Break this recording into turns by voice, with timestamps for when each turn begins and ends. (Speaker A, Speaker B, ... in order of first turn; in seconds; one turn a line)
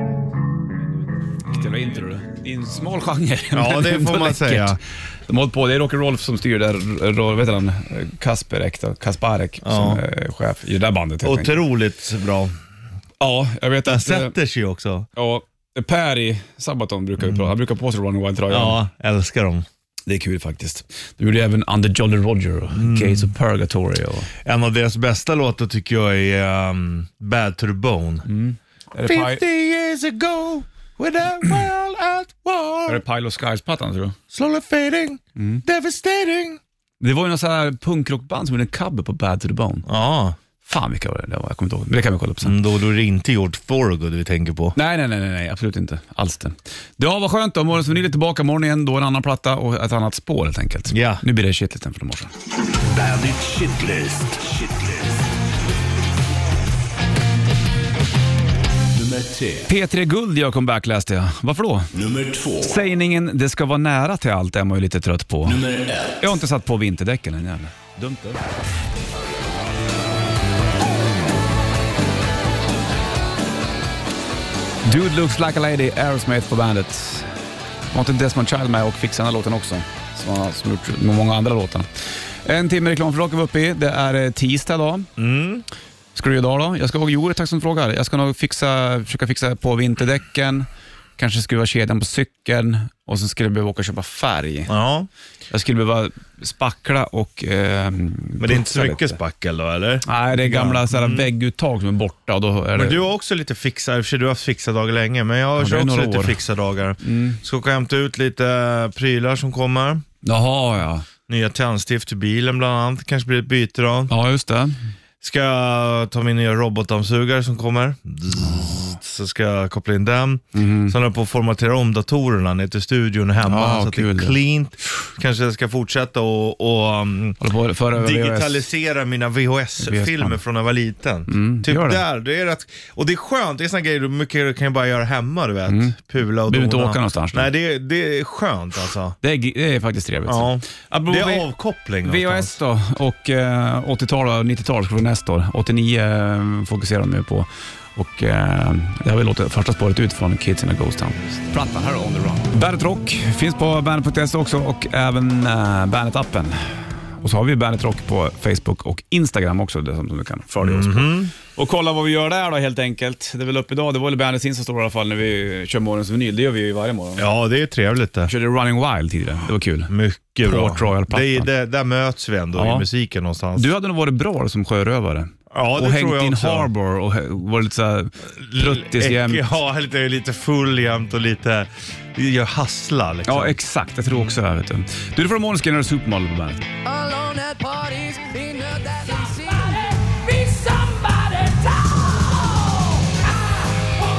Speaker A: 1.5-11.6
Speaker B: 3.5-4.8
Speaker B: 9.6-10.0
Speaker B: 11.2-12.6
Speaker A: 13.2-14.3
Speaker B: 13.9-15.1
Speaker A: 15.2-18.8
Speaker B: 17.2-17.5
Speaker B: 18.5-19.7
Speaker A: 20.1-24.3
Speaker B: 22.8-23.3
Speaker B: 24.4-28.3
Speaker A: 28.3-29.4
Speaker B: 29.0-33.0
Speaker A: 32.9-34.2
Speaker B: 34.3-36.6
Speaker A: 35.4-35.6
Speaker A: 37.0-39.9
Speaker B: 39.9-40.4
Speaker A: 40.6-42.6
Speaker B: 42.4-44.8
Speaker A: 44.8-52.3
Speaker B: 50.9-51.2
Speaker C: 52.8-55.3
Speaker C: 58.9-59.7
Speaker A: 59.7-61.9
Speaker C: 61.9-62.8
Speaker A: 62.6-65.6
Speaker C: 65.5-66.3
Speaker A: 66.2-68.4
Speaker A: 74.9-77.3
Speaker A: 77.9-81.9
Speaker A: 82.5-85.1
Speaker B: 85.2-85.6
Speaker A: 86.2-94.7
Speaker B: 94.7-95.1
Speaker A: 95.5-99.2
Speaker B: 98.4-101.3
Speaker A: 100.1-103.0
Speaker B: 102.8-110.0
Speaker A: 105.6-106.4
Speaker A: 107.0-107.4
Speaker A: 110.2-111.1
Speaker B: 111.3-114.1
Speaker A: 114.1-114.8
Speaker B: 115.2-127.4
Speaker A: 118.4-118.8
Speaker A: 120.5-121.0
Speaker A: 123.5-124.4
Speaker A: 127.4-128.7
Speaker B: 127.9-139.2
Speaker A: 129.8-130.4
Speaker A: 131.3-132.0
Speaker A: 135.7-135.9
Speaker A: 136.5-137.5
Speaker A: 139.2-141.5
Speaker B: 140.3-142.6
Speaker A: 142.0-167.3
Speaker B: 160.6-161.3
Speaker B: 167.2-168.3
Speaker A: 168.3-169.9
Speaker B: 169.9-173.7
Speaker A: 170.4-171.5
Speaker A: 172.6-172.9
Speaker A: 173.6-179.5
Speaker B: 175.5-176.7
Speaker B: 178.3-183.6
Speaker A: 183.3-186.7
Speaker D: 187.0-190.2